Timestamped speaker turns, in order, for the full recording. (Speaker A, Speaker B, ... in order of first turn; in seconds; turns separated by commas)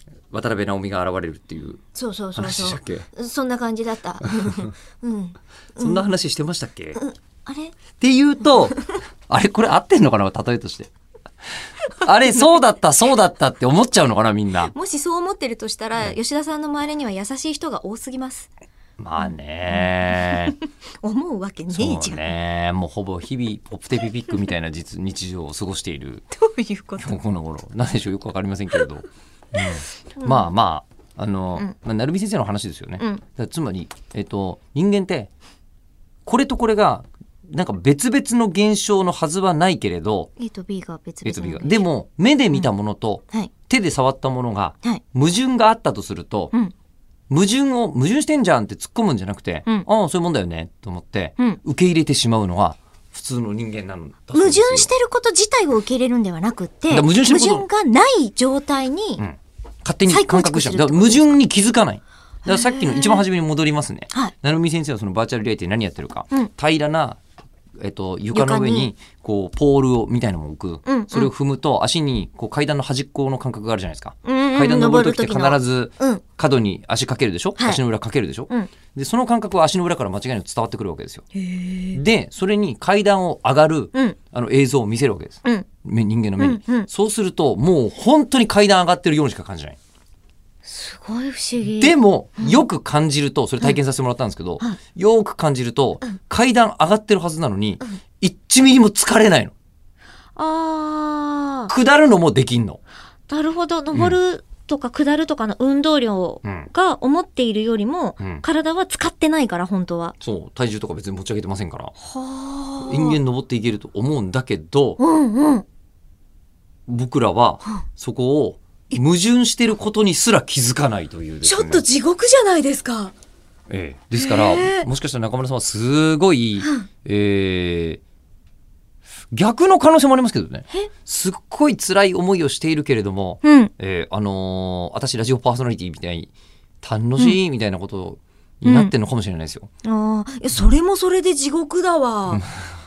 Speaker A: 0.3-1.8, Speaker B: 1.9-6.0, Speaker A: 2.4-3.1, Speaker A: 4.4-4.7, Speaker A: 5.8-7.0, Speaker B: 6.9-7.8, Speaker A: 8.0-10.9, Speaker A: 11.9-14.7, Speaker B: 14.6-18.5, Speaker A: 19.0-20.5, Speaker B: 19.2-22.3, Speaker A: 21.7-26.3, Speaker B: 26.3-27.2, Speaker A: 27.0-35.3, Speaker B: 29.6-30.5, Speaker A: 36.2-40.3, Speaker B: 40.4-41.8, Speaker A: 41.2-46.5, Speaker A: 47.3-54.9, Speaker B: 54.3-59.2, Speaker A: 56.9-57.6, Speaker A: 59.2-67.2, Speaker B: 60.1-61.3, Speaker B: 62.4-63.2, Speaker A: 67.8-81.2, Speaker B: 68.3-68.9, Speaker B: 70.8-71.3, Speaker B: 74.2-76.2, Speaker B: 81.3-82.0, Speaker A: 81.9-89.8, Speaker B: 86.4-86.9, Speaker B: 90.6-92.6, Speaker A: 91.6-99.5, Speaker B: 100.3-101.7, Speaker A: 101.7-102.8, Speaker B: 103.3-110.2, Speaker A: 106.4-106.7, Speaker A: 110.2-111.9, Speaker B: 112.0-113.2, Speaker A: 112.8-115.0, Speaker B: 115.0-115.6, Speaker A: 116.9-121.8, Speaker B: 121.4-123.1, Speaker A: 123.7-128.0, Speaker B: 124.1-124.9, Speaker B: 126.6-126.9, Speaker A: 129.3-139.7, Speaker B: 133.4-133.7, Speaker B: 138.6-138.9, Speaker B: 139.8-142.4, Speaker A: 142.3-142.6